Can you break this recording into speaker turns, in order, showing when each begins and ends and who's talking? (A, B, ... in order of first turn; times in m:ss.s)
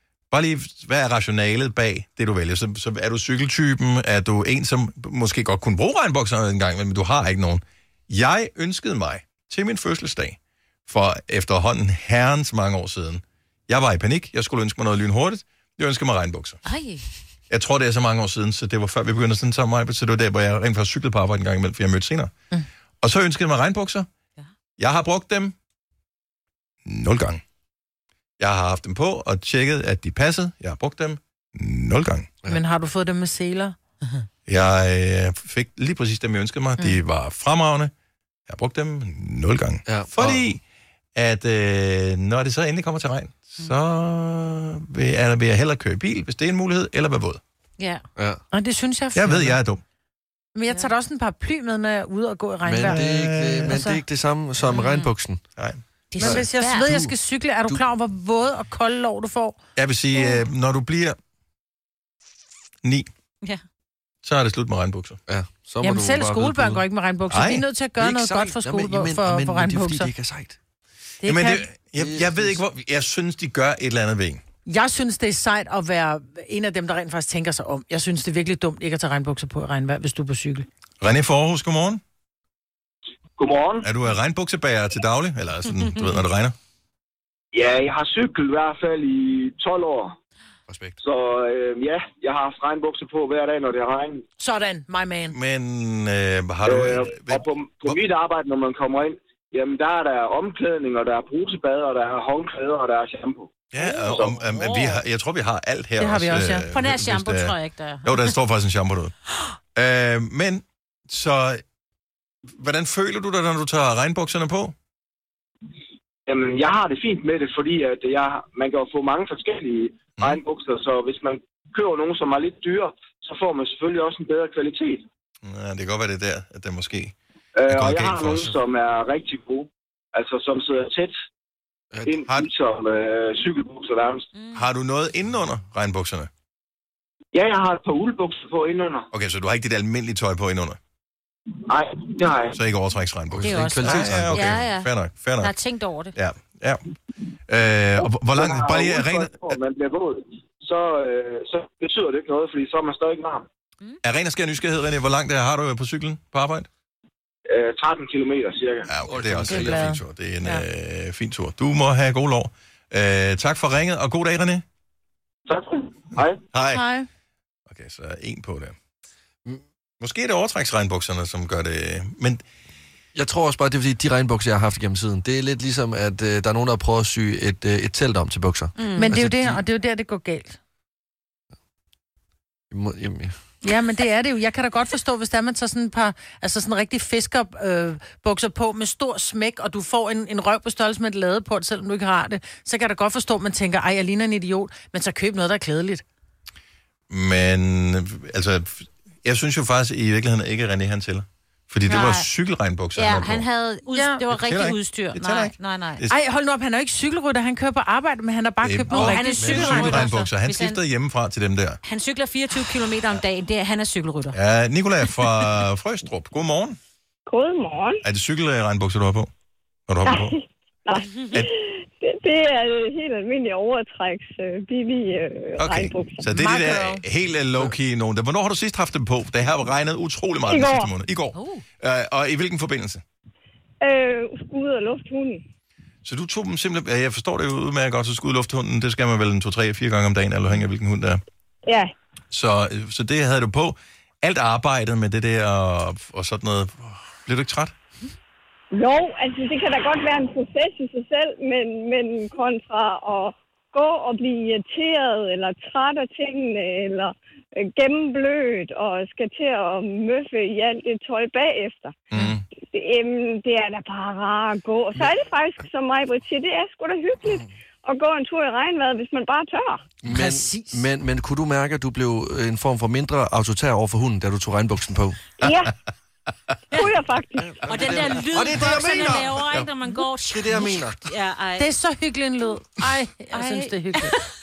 0:00.3-0:16.6 A
0:16.6-0:17.0 B
0:17.5-0:22.3 A
0:23.0-0:24.1 A
0:24.8-0:25.6 A
0:26.8-0:27.4 A
0:28.4-0:32.3 A
0:32.5-0:33.8 C
0:34.5-0:37.9 A
0:38.5-0:40.6 A
0:39.9-0:40.4 D
0:41.2-0:47.4 A
0:48.2-0:48.4 D
0:48.5-0:49.6 C
0:49.2-0:49.8 A
0:50.6-0:53.0 C
0:52.6-0:55.4 D
0:52.9-0:53.8 A
0:53.7-0:54.0 C
0:54.7-0:55.1 B
0:56.1-0:56.9 B
0:56.2-0:59.6 C
0:56.2-0:57.1 D
0:59.8-1:01.2 A
1:02.8-1:03.1 A
1:04.2-1:05.2 A
1:05.3-1:06.8 D
1:05.8-1:10.1 C
1:07.3-1:07.6 A
1:08.0-1:10.6 D
1:11.2-1:11.7 C
1:11.2-1:14.4 A
1:12.0-1:12.6 D
1:14.7-1:20.7 C
1:21.0-1:22.0 A
1:23.4-1:23.9 E
1:23.8-1:26.6 A
1:27.5-1:30.2 E
1:30.7-1:31.0 D
1:31.0-1:34.2 E
1:34.4-1:35.4 C
1:35.3-1:38.0 A
1:36.6-1:44.4 E
1:43.7-1:49.1 A
1:43.8-1:45.0 B
1:46.0-1:46.7 C
1:46.7-1:48.3 B
1:49.8-1:51.6 A
1:52.5-1:54.8 A
1:56.3-2:05.0 E
2:05.4-2:07.2 A
2:07.6-2:11.2 E
2:07.7-2:08.5 A
2:12.0-2:14.3 E
2:14.5-2:16.3 A
2:17.3-2:19.1 E
2:19.1-2:20.8 A
2:21.7-2:22.6 E
2:22.5-2:25.5 A
2:23.3-2:24.6 D
2:23.4-2:26.2 B
2:26.2-2:26.8 A
2:27.5-2:29.5 A
2:28.0-2:33.5 E
2:34.0-2:36.7 A
2:37.5-2:38.9 E
2:38.9-2:44.6 A
2:39.1-2:39.9 D
2:39.5-2:40.6 C
2:45.5-2:46.4 E
2:46.5-2:46.8 A
2:46.7-2:47.1 C
2:47.7-2:48.8 A
2:50.0-2:52.4 A
2:53.2-2:59.6 D
2:58.8-2:59.1 B
2:58.9-3:00.6 C
3:02.7-3:03.4 D
3:03.6-3:16.0 C
3:17.1-3:23.5 A
3:21.9-3:22.3 B
3:23.0-3:26.0 B
3:23.9-3:24.2 C
3:24.3-3:26.2 A
3:26.1-3:30.1 C
3:28.6-3:31.8 A
3:28.9-3:30.8 B
3:31.8-3:34.4 B
3:34.3-3:36.8 A
3:37.3-3:38.0 F
3:38.0-3:39.3 A
3:39.9-3:40.4 A
3:40.0-3:46.3 F
3:45.6-3:53.0 A
3:46.3-3:47.0 C
3:50.5-3:50.9 F
3:53.8-3:55.4 F
3:56.0-4:01.2 A
4:01.7-4:01.9 F
4:02.3-4:07.8 A
4:08.7-4:22.0 F
4:22.1-4:22.4 A
4:22.6-4:29.9 F
4:30.0-4:35.2 D
4:30.1-4:30.8 C
4:35.4-4:35.7 F
4:36.7-4:37.6 F
4:37.4-4:39.6 D
4:37.6-4:41.7 B
4:40.2-4:41.0 D
4:41.6-4:44.2 C
4:43.3-4:44.2 B